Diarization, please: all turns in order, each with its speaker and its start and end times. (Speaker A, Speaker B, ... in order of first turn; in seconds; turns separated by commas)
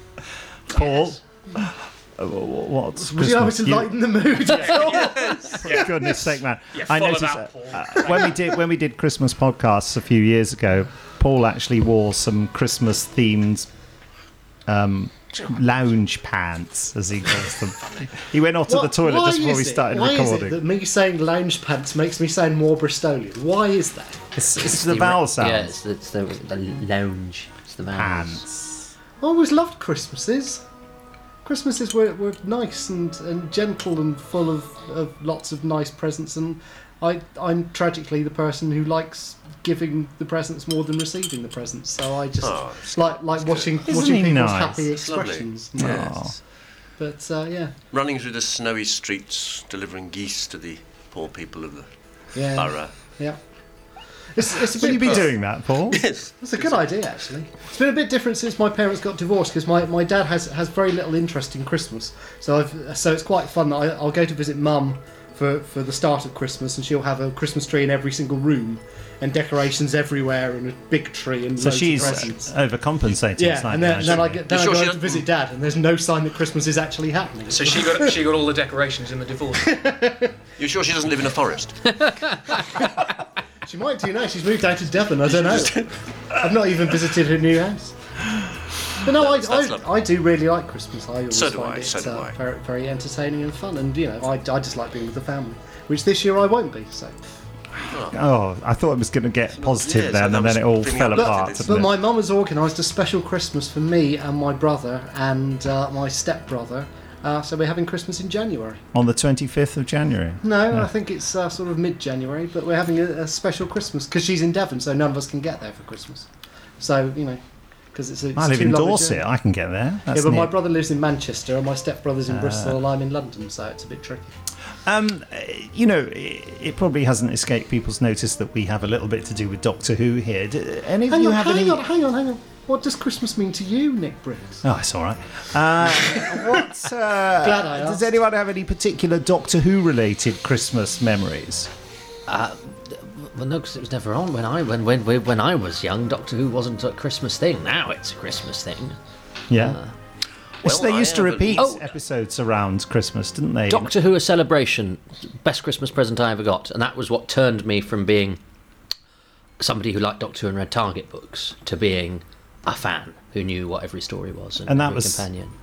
Speaker A: 0.7-4.1, Speaker B: 0.7-1.2, Speaker C: 3.0-5.8, Speaker B: 4.5-6.1, Speaker A: 5.6-13.7, Speaker B: 6.7-8.5, Speaker A: 14.7-20.6, Speaker B: 15.3-15.6, Speaker B: 17.8-18.1, Speaker C: 18.7-24.2, Speaker A: 24.4-25.8, Speaker D: 24.6-28.4, Speaker A: 27.9-28.9, Speaker C: 29.2-30.6, Speaker C: 31.4-46.2, Speaker E: 42.4-43.9, Speaker A: 43.9-44.9, Speaker E: 45.0-46.1, Speaker A: 45.8-46.4, Speaker C: 47.0-47.8, Speaker E: 47.9-51.9, Speaker C: 52.4-53.4, Speaker E: 52.5-52.9, Speaker C: 54.3-55.3, Speaker A: 54.6-56.1, Speaker E: 54.8-55.3, Speaker E: 55.9-56.9, Speaker C: 56.4-72.5, Speaker A: 71.6-74.4, Speaker C: 73.3-78.1, Speaker E: 74.5-75.3, Speaker B: 77.5-79.8, Speaker C: 79.6-80.3, Speaker E: 80.6-82.0, Speaker D: 82.0-82.3, Speaker C: 83.7-88.0, Speaker E: 85.3-85.9, Speaker E: 89.0-89.9, Speaker C: 89.0-97.2, Speaker E: 91.3-92.3, Speaker E: 97.9-98.2, Speaker A: 98.1-101.9, Speaker E: 99.6-101.8, Speaker C: 101.1-108.8, Speaker A: 108.9-110.9, Speaker C: 110.4-116.3, Speaker C: 116.8-117.4, Speaker C: 117.9-119.2, Speaker A: 118.3-120.5, Speaker C: 120.1-124.3, Speaker A: 122.3-122.8, Speaker A: 124.8-131.8, Speaker C: 131.1-134.6, Speaker A: 134.6-141.7, Speaker C: 136.3-136.6, Speaker C: 137.4-138.1, Speaker D: 142.3-149.0, Speaker A: 149.5-149.8, Speaker D: 149.6-149.9, Speaker E: 150.6-151.8, Speaker A: 150.6-153.9, Speaker D: 153.7-158.4, Speaker D: 159.6-165.5, Speaker A: 164.7-165.3